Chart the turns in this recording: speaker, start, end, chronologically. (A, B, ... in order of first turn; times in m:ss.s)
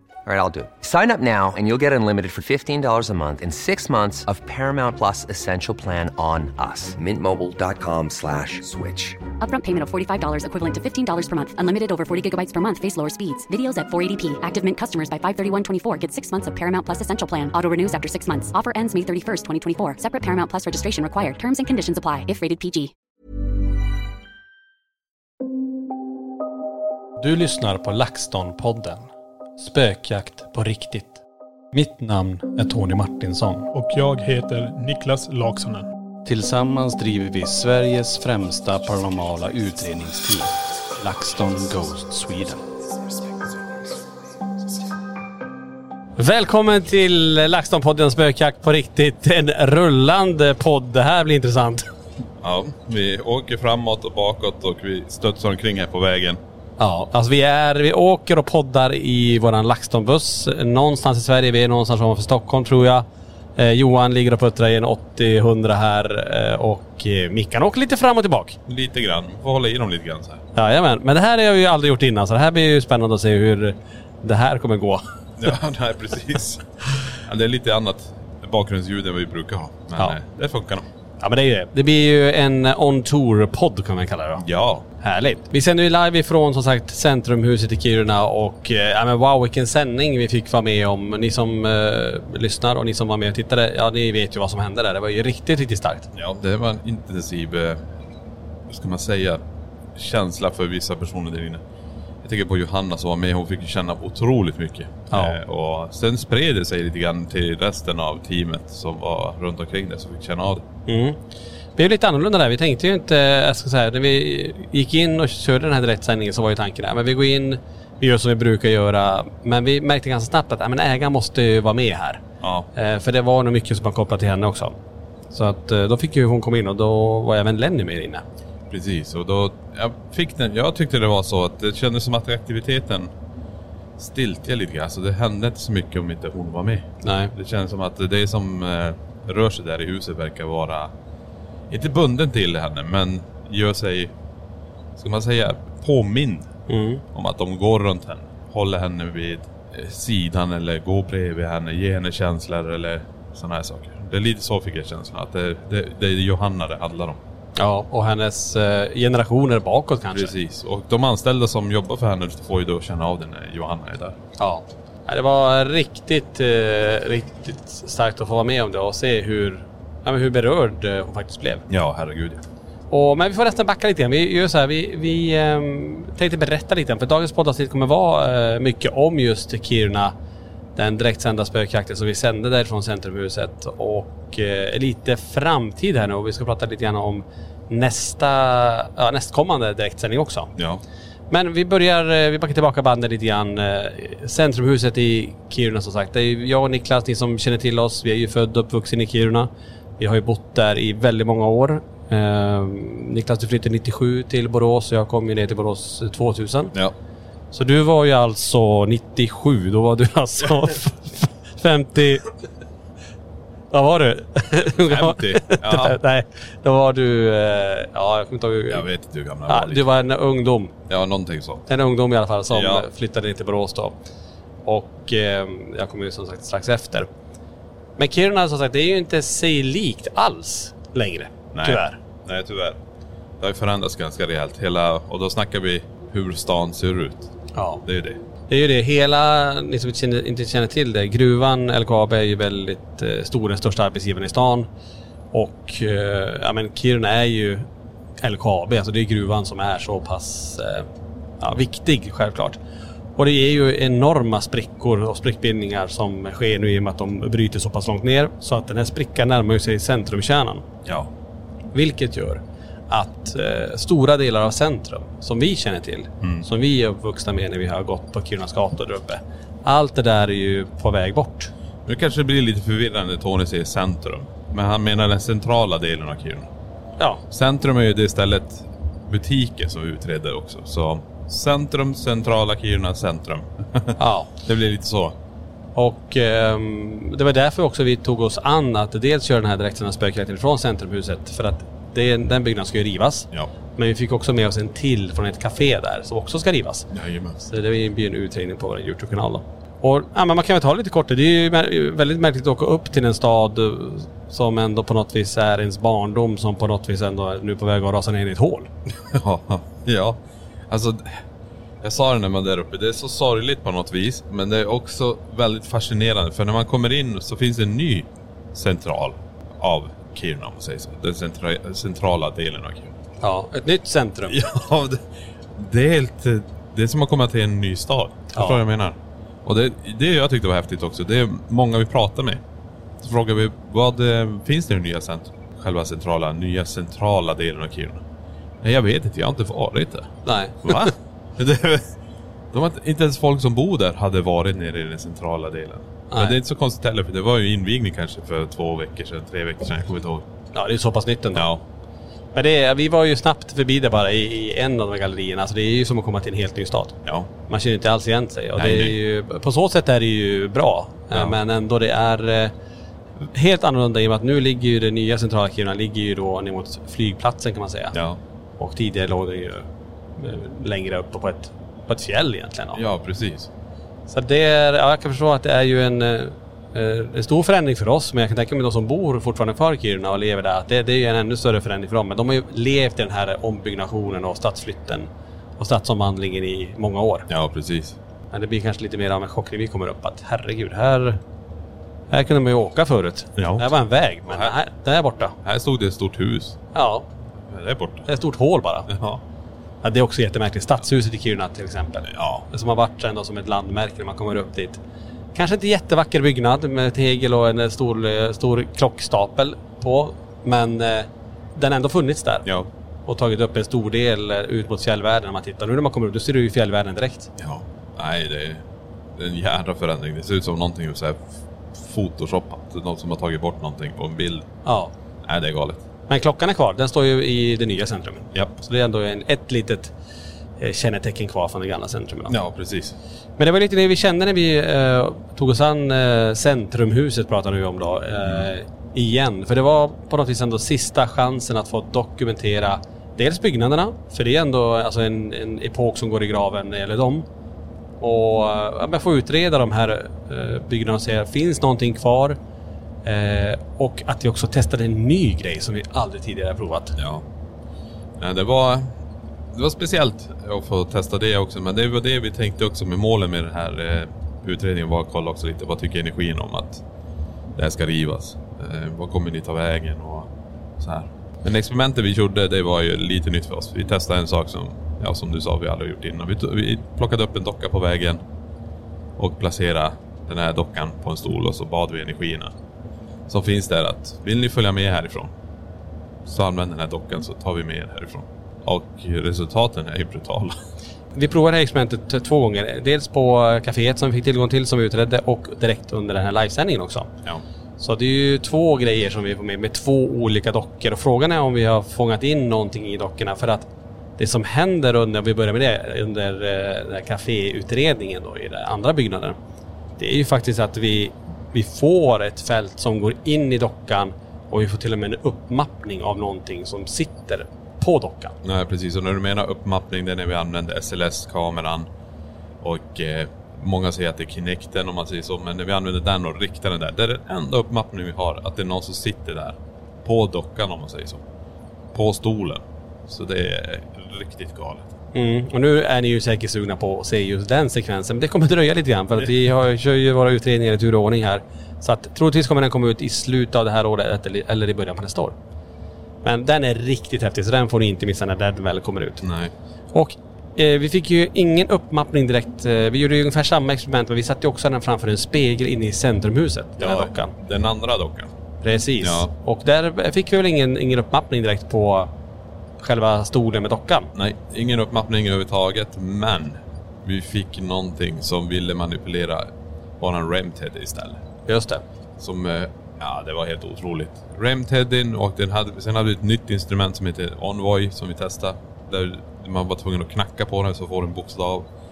0:00.2-0:09.2 A
0:09.4-0:22.9 B
0:27.2-0:33.7 C
0:33.7-0:35.9 D
0:37.2-0:40.4 C
0:41.3-0:42.6 C
0:46.2-0:51.8 C
0:52.4-0:56.4 E
0:56.8-1:03.0 C
1:03.6-1:08.6 C
1:08.7-1:10.4 E
1:10.5-1:15.0 C
1:15.4-1:16.6 E
1:17.2-1:20.8 E
1:21.2-1:24.4 C
1:24.4-1:24.8 E
1:25.0-1:36.1 C
1:36.1-1:37.8 E
1:38.7-1:39.4 E
1:40.0-1:41.6 E
1:42.2-1:50.6 E
1:45.1-1:45.4 C
1:50.9-1:51.2 C
1:51.8-2:02.2 C
2:02.4-2:02.7 E
2:02.7-2:04.7 C
2:05.3-2:08.2 C
2:08.7-2:13.1 E
2:14.0-2:20.9 E
2:17.0-2:17.3 C
2:21.7-2:24.1 E
2:25.0-2:26.5 E
2:26.7-2:27.0 C
2:27.1-2:37.2 E
2:37.6-2:40.3 C
2:40.1-2:44.2 E
2:44.4-2:51.6 C
2:51.7-2:52.4 E
2:52.9-3:00.1 C
3:00.8-3:10.5 C
3:10.6-3:10.8 E
3:11.3-3:26.7 C
3:27.5-3:32.3 C
3:33.7-3:38.8 C
3:34.9-3:36.0 E
3:38.7-3:39.9 E
3:39.5-3:40.7 C
3:40.9-3:41.7 E
3:41.7-3:44.0 C
3:42.5-3:42.8 E
3:44.6-3:47.1 C
3:48.0-3:52.0 C
3:51.5-3:52.8 E
3:53.4-3:57.3 E
3:57.5-3:57.8 C
3:57.8-3:58.2 E
3:58.5-4:04.7 C
4:05.3-4:07.6 C
4:08.2-4:10.8 C
4:11.4-4:12.6 C
4:13.2-4:20.6 C
4:21.7-4:31.5 C
4:31.8-4:36.5 E
4:37.3-4:45.2 E
4:44.0-4:44.3 C
4:45.7-4:56.9 C
4:56.9-4:57.4 E
4:57.4-5:08.7 C
5:09.0-5:10.2 E
5:10.7-5:11.2 E
5:11.8-5:22.9 E
5:23.2-5:24.4 C
5:24.3-5:25.0 E
5:25.6-5:32.4 E
5:33.0-5:38.0 E
5:38.6-5:41.9 E
5:40.2-5:40.9 C
5:42.5-5:50.2 E
5:50.5-5:51.5 C
5:51.4-5:51.6 E
5:52.3-5:57.0 C
5:57.5-6:02.5 C
5:58.6-5:58.9 E
6:03.2-6:07.9 C
6:07.9-6:08.2 E
6:08.6-6:09.6 C
6:10.2-6:12.8 C
6:12.7-6:13.5 E
6:14.1-6:27.3 C
6:27.3-6:28.0 E
6:28.3-6:31.2 C
6:32.1-6:35.3 C
6:33.4-6:33.8 E
6:34.3-6:34.5 E
6:35.4-6:36.6 E
6:36.7-6:37.0 C
6:37.5-6:38.1 E
6:38.1-6:38.9 C
6:38.9-6:39.2 E
6:39.8-6:44.8 C
6:42.1-6:42.4 E
6:45.3-6:52.5 C
6:53.1-6:57.3 C
6:57.4-6:58.6 E
6:59.2-7:01.2 E
7:01.7-7:04.5 E
7:04.6-7:04.9 C
7:05.2-7:05.8 E
7:06.1-7:09.9 C
7:10.6-7:12.3 C
7:12.3-7:13.0 E
7:13.4-7:27.2 C
7:28.0-7:32.4 C
7:33.0-7:37.0 C
7:37.0-7:37.2 E
7:38.2-7:38.9 E
7:39.5-7:46.8 E
7:47.6-7:58.2 E
7:59.2-8:02.5 E
8:03.3-8:05.3 E
8:06.2-8:10.5 E
8:11.1-8:17.1 C
8:17.8-8:29.4 C
8:30.0-8:38.3 C
8:38.4-8:41.9 E
8:42.6-8:51.2 E
8:51.9-8:54.9 E
8:55.1-9:05.3 C
9:06.2-9:09.2 C
9:09.2-9:09.5 E
9:09.9-9:17.3 C
9:16.8-9:18.3 E
9:18.6-9:22.1 C
9:19.0-9:19.3 E
9:22.8-9:24.1 C
9:24.1-9:29.5 E
9:30.0-9:31.2 E
9:31.5-9:31.8 C
9:32.2-9:41.6 E